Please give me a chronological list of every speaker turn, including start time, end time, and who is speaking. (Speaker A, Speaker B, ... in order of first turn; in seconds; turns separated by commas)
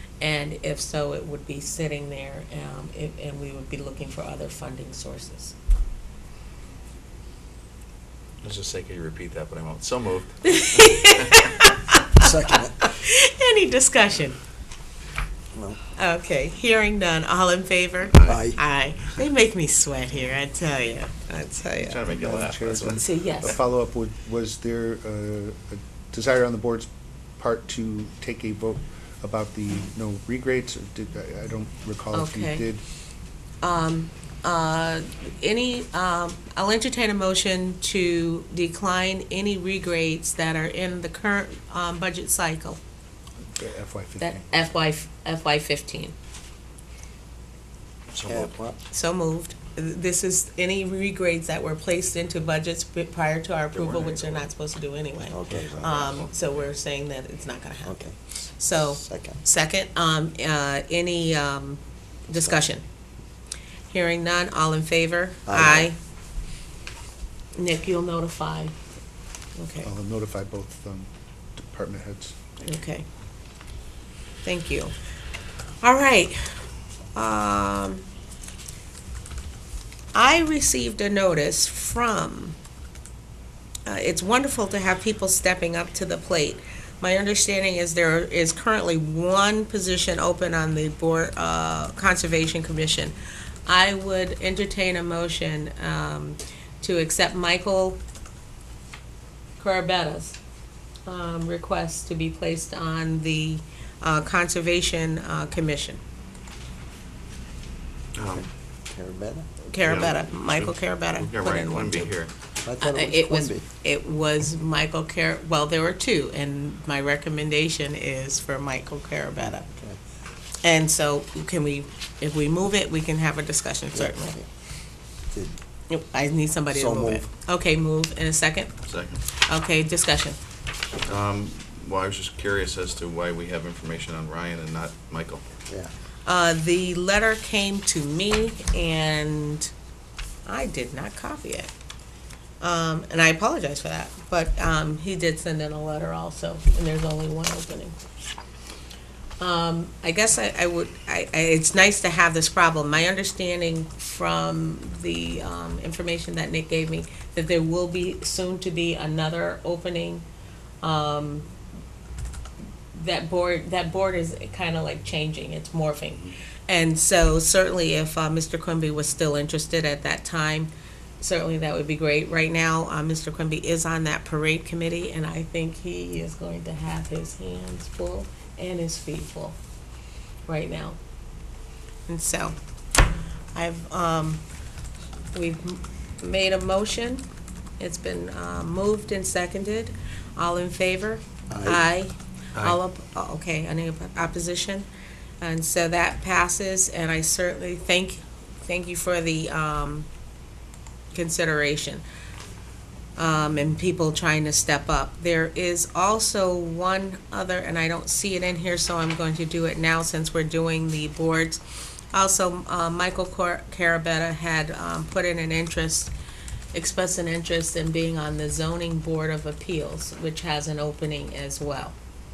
Speaker A: 0.2-5.5, Speaker B: 8.4-11.4, Speaker A: 10.4-14.4, Speaker C: 12.2-12.9, Speaker C: 15.5-15.8, Speaker A: 15.9-22.0, Speaker B: 18.1-18.5, Speaker C: 18.2-18.6, Speaker B: 21.8-23.5, Speaker D: 22.1-32.8, Speaker A: 22.9-23.6, Speaker A: 32.1-32.6, Speaker A: 33.6-42.8, Speaker D: 43.5-44.4, Speaker A: 44.2-46.1, Speaker B: 48.1-48.5, Speaker C: 48.2-48.8, Speaker A: 48.9-62.8, Speaker B: 53.7-54.5, Speaker C: 55.2-56.2, Speaker B: 55.5-56.6, Speaker C: 57.8-58.2, Speaker C: 58.7-59.4, Speaker C: 62.3-62.6, Speaker A: 63.9-66.0, Speaker C: 65.5-65.9, Speaker A: 67.6-68.7, Speaker A: 69.5-69.9, Speaker D: 69.8-72.4, Speaker A: 72.6-73.0, Speaker A: 74.4-74.9, Speaker A: 75.8-76.6, Speaker A: 77.1-78.0, Speaker A: 80.1-82.6, Speaker A: 83.8-93.1, Speaker A: 93.7-98.0, Speaker A: 99.6-100.4, Speaker A: 101.0-106.0, Speaker B: 108.2-108.5, Speaker C: 108.3-109.5, Speaker A: 109.7-112.1, Speaker B: 109.8-112.3, Speaker C: 112.6-113.6, Speaker A: 112.8-119.7, Speaker C: 119.7-120.0, Speaker A: 120.6-124.4, Speaker C: 123.9-124.4, Speaker C: 125.3-125.5, Speaker A: 125.9-128.8, Speaker C: 126.7-127.2, Speaker B: 128.8-129.2, Speaker A: 129.3-130.4, Speaker B: 131.0-135.4, Speaker A: 136.2-139.7, Speaker A: 140.4-141.7, Speaker A: 142.6-148.0, Speaker A: 149.4-160.2, Speaker A: 160.8-161.5, Speaker A: 162.9-179.6, Speaker A: 180.4-181.0, Speaker A: 182.1-182.6, Speaker A: 183.5-184.4, Speaker A: 185.3-187.2, Speaker A: 187.8-194.9, Speaker C: 191.5-191.9, Speaker A: 195.4-200.1, Speaker A: 201.1-202.0, Speaker A: 203.2-211.6, Speaker A: 212.1-216.1, Speaker A: 216.7-221.9